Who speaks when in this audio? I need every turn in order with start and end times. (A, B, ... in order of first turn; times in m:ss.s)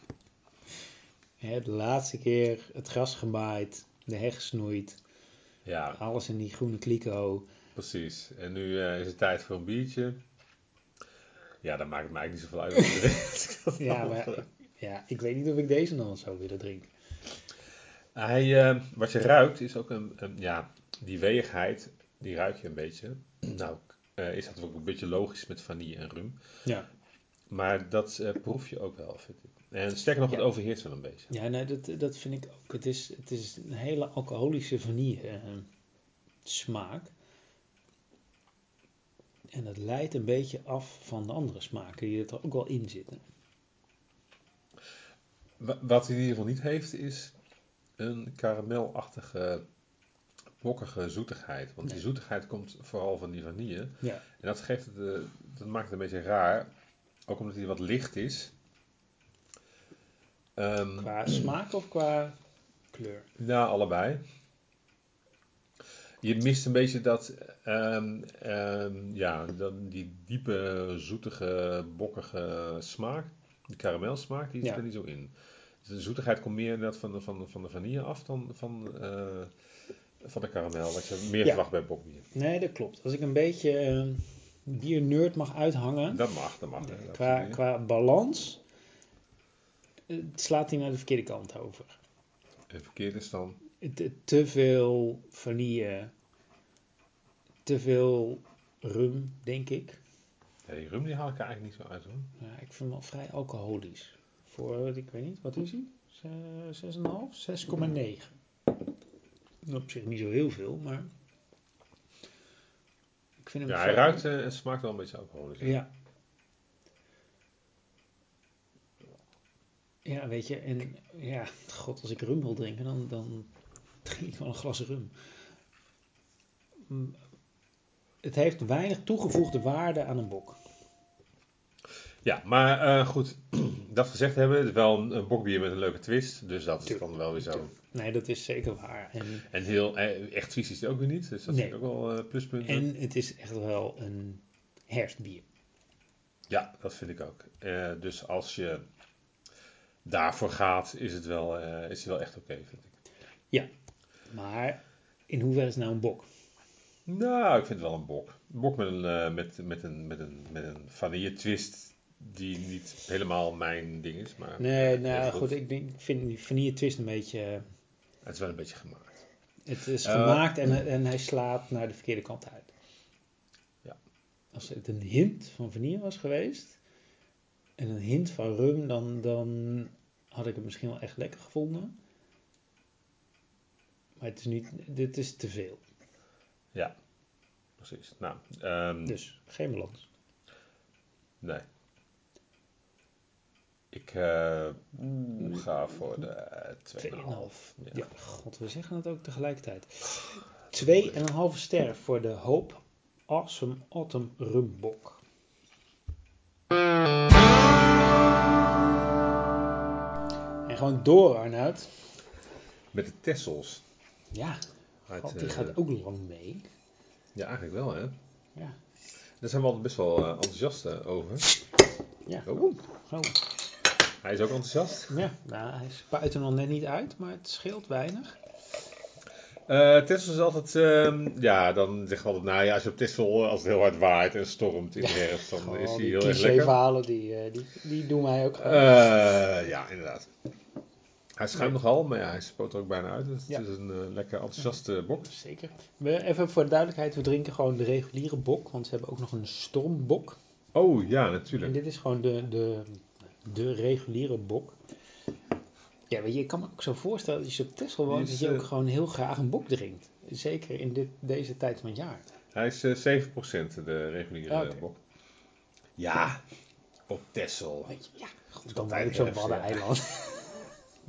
0:01.4-0:05.0 A
0:05.6-0:06.0 B
0:05.9-0:07.5 A
0:07.7-0:10.2 B
0:11.6-0:14.4 B
0:13.8-0:16.9 A
0:18.1-0:26.4 B
0:27.5-0:31.3 B
0:31.3-0:35.7 A
0:36.4-0:37.1 A
0:39.5-0:43.2 A
0:45.6-0:47.3 B
0:48.0-0:49.6 B
0:50.6-0:56.7 B
0:57.3-0:58.5 B
1:00.6-1:01.4 B
1:01.0-1:02.4 A
1:02.9-1:03.3 A
1:03.4-1:04.2 B
1:06.2-1:15.3 B
1:15.8-1:19.5 B
1:20.2-1:22.2 B
1:22.3-1:26.2 A
1:26.1-1:27.6 B
1:26.8-1:28.6 A
1:30.1-1:32.0 A
1:32.7-1:33.6 B
1:33.8-1:36.1 A
1:37.6-1:40.0 A
1:40.7-1:42.3 B
1:42.4-1:48.3 A
1:49.6-1:51.1 A
1:53.4-1:54.2 A
1:53.6-1:55.8 B
1:55.6-1:55.9 A
2:00.0-2:03.5 A
2:04.0-2:05.1 A
2:06.9-2:07.2 A
2:08.2-2:10.6 A
2:12.2-2:17.7 B
2:17.5-2:19.4 A
2:19.5-2:22.8 B
2:21.5-2:21.8 A
2:22.6-2:25.4 A
2:26.5-2:28.8 B
2:30.0-2:32.9 B
2:34.3-2:36.2 A
2:37.1-2:45.6 B
2:44.6-2:47.6 A
2:48.2-2:49.2 B
2:49.6-2:52.7 A
2:50.0-2:50.5 B
2:54.5-2:56.8 A
2:57.8-3:02.0 A
3:04.2-3:05.8 A
3:07.8-3:09.2 B
3:09.0-3:10.1 A
3:13.9-3:18.0 B
3:17.0-3:25.2 A
3:20.7-3:21.2 B
3:30.6-3:31.9 A
3:32.9-3:33.8 B
3:34.3-3:34.6 A
3:35.1-3:35.8 B
3:35.2-3:36.6 A
3:37.3-3:38.2 B
3:39.4-3:41.5 B
3:42.2-3:43.6 A
3:42.4-3:42.7 B
3:44.2-3:45.2 B
3:45.1-3:48.4 A
3:49.7-3:56.8 B
3:55.0-3:58.9 A
3:58.6-4:00.3 B
4:01.4-4:05.3 B
4:05.2-4:10.4 A
4:10.7-4:11.8 B
4:11.5-4:14.8 A
4:16.1-4:22.2 A
4:18.1-4:18.7 B
4:22.5-4:25.0 B
4:24.5-4:24.8 A
4:26.0-4:26.4 B
4:27.1-4:27.9 B
4:27.9-4:30.7 A
4:28.7-4:29.8 B